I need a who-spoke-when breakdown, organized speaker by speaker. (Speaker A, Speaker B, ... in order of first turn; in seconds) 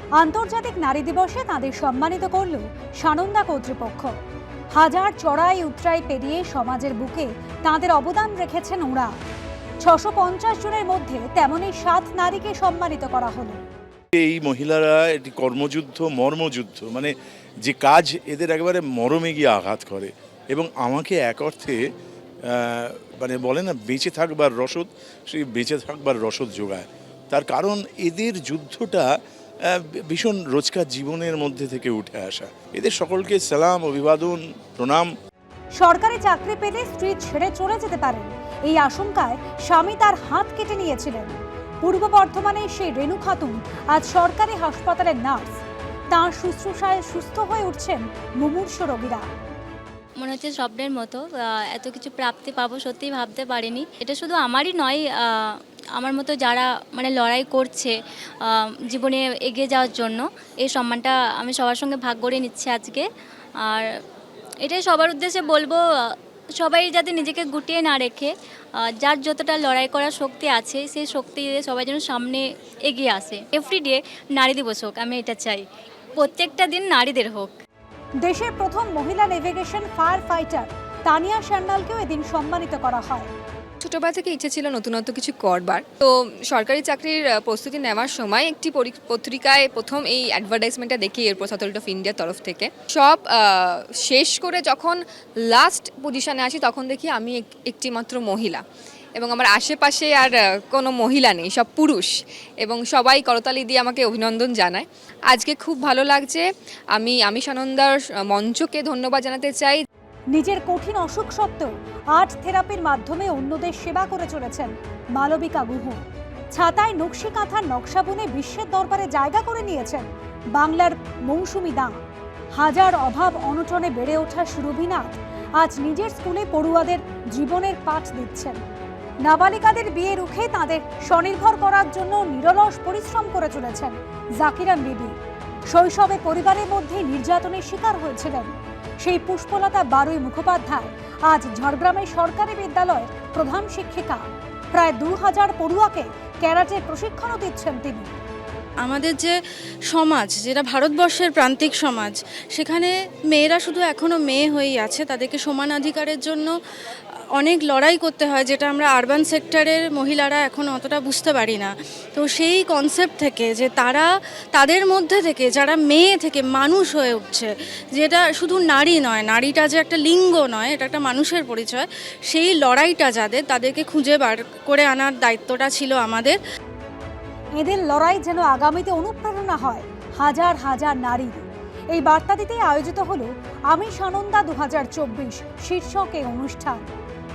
Speaker A: 0.2-4.1, 4.8-9.1, 9.8-13.6, 35.8-45.6, 46.1-49.3, 78.2-83.3, 110.3-116.0, 116.5-122.0, 122.5-128.6, 129.2-135.1, 135.7-148.1, 177.6-186.9
Speaker B: 14.1-17.1, 17.6-21.8, 22.5-29.1, 29.6-35.1
Speaker C: 50.2-63.0, 64.6-68.3, 69.0-75.6, 76.2-77.6
Speaker D: 83.8-98.6, 99.2-106.4, 106.9-109.8
Speaker E: 148.8-149.3, 149.9-156.5, 157.4-164.0, 164.6-176.3